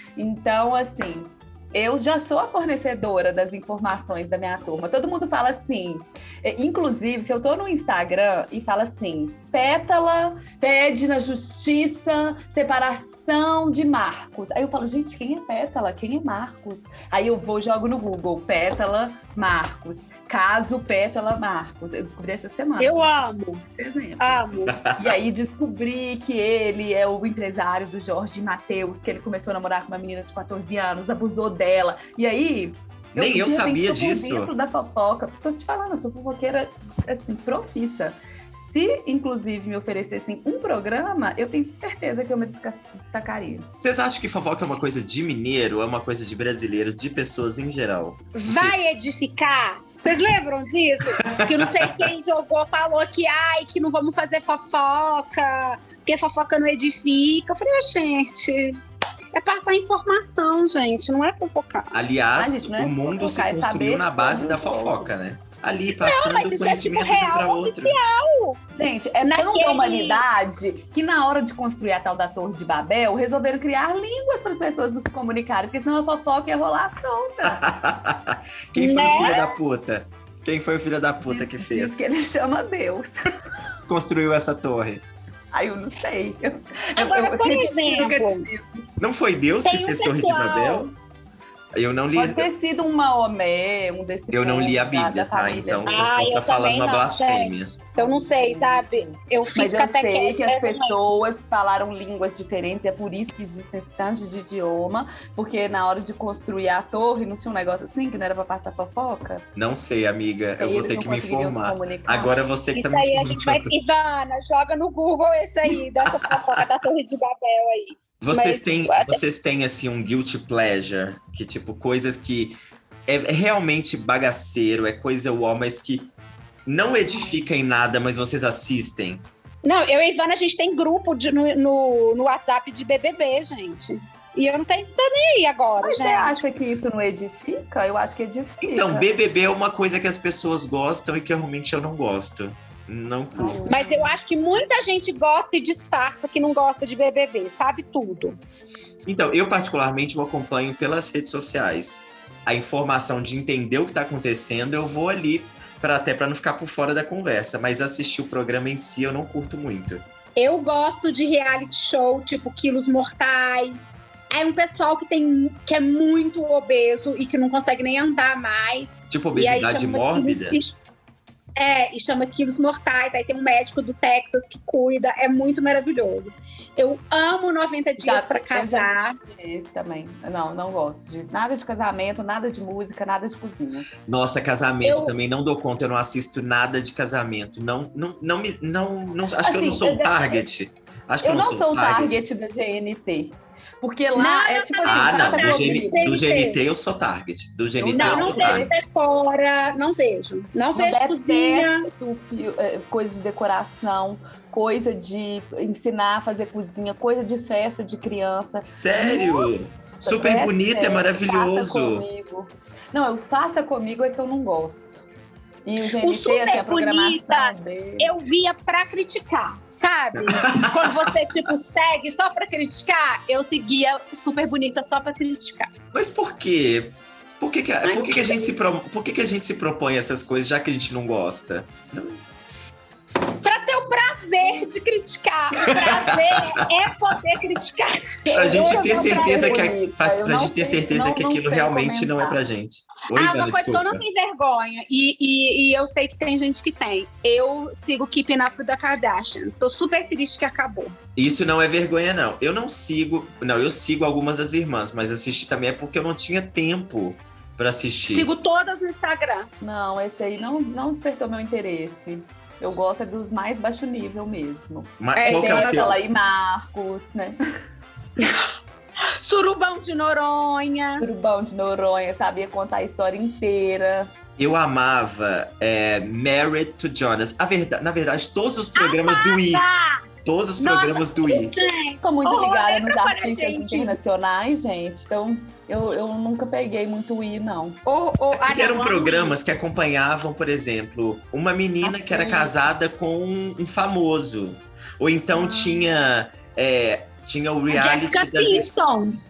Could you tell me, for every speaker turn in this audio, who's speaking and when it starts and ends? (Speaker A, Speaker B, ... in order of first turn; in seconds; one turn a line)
Speaker A: 0.2-23.1
Speaker B: 22.8-23.6
Speaker A: 23.7-43.7
Speaker B: 24.2-24.7
Speaker C: 24.6-25.1
Speaker C: 33.1-34.5
Speaker C: 43.8-48.7
Speaker B: 48.3-58.8
Speaker C: 51.2-52.0
Speaker B: 59.3-62.0
Speaker C: 61.9-68.0
Speaker A: 62.4-65.1
Speaker B: 65.9-68.6
Speaker A: 68.7-77.6
Speaker B: 69.2-70.2
Speaker C: 77.4-82.0
Speaker B: 78.7-79.5
Speaker A: 81.2-83.3
Speaker C: 83.9-85.0
Speaker A: 85.5-88.8
Speaker B: 87.0-88.5
Speaker C: 89.0-90.9
Speaker B: 89.6-90.9
Speaker C: 91.7-92.5
Speaker A: 92.1-96.0
Speaker C: 94.3-97.8
Speaker B: 95.8-101.0
Speaker A: 98.0-109.5
Speaker C: 109.5-113.7
Speaker A: 110.6-112.3
Speaker B: 112.7-119.2
Speaker C: 116.1-116.6
Speaker C: 118.2-126.1
Speaker C: 126.7-129.2
Speaker B: 129.6-136.4
Speaker A: 135.8-139.1
Speaker C: 138.6-143.6
Speaker A: 143.3-144.1
Speaker B: 143.7-148.4
Speaker C: 149.1-160.0
Speaker B: 160.4-170.8
Speaker C: 169.1-170.6
Speaker B: 171.6-179.2
Speaker A: 178.0-183.9
Speaker C: 184.1-192.2
Speaker B: 184.8-185.1
Speaker A: 189.4-190.4
Speaker A: 191.2-196.0
Speaker B: 194.1-196.6
Speaker C: 194.8-198.7
Speaker A: 197.8-198.8
Speaker B: 197.9-201.9
Speaker A: 200.7-209.5
Speaker C: 208.7-212.1
Speaker A: 210.0-215.0
Speaker A: 215.6-218.1
Speaker B: 216.0-225.7
Speaker C: 220.3-221.1
Speaker C: 225.9-232.2
Speaker B: 227.8-228.5
Speaker B: 233.3-239.7
Speaker C: 235.6-236.6
Speaker C: 238.3-244.0
Speaker A: 238.5-242.4
Speaker B: 243.1-250.9
Speaker C: 251.2-258.3
Speaker B: 258.1-259.5
Speaker A: 259.6-267.4
Speaker C: 265.0-266.0
Speaker B: 265.2-265.9
Speaker B: 268.2-268.4
Speaker B: 269.2-271.0
Speaker A: 271.0-274.1
Speaker C: 274.4-279.6
Speaker B: 278.8-280.0
Speaker C: 280.2-281.5
Speaker B: 280.6-284.0
Speaker A: 282.0-287.8
Speaker B: 287.9-289.4
Speaker C: 288.4-298.7
Speaker A: 291.8-292.6
Speaker A: 295.3-295.8
Speaker B: 297.7-299.2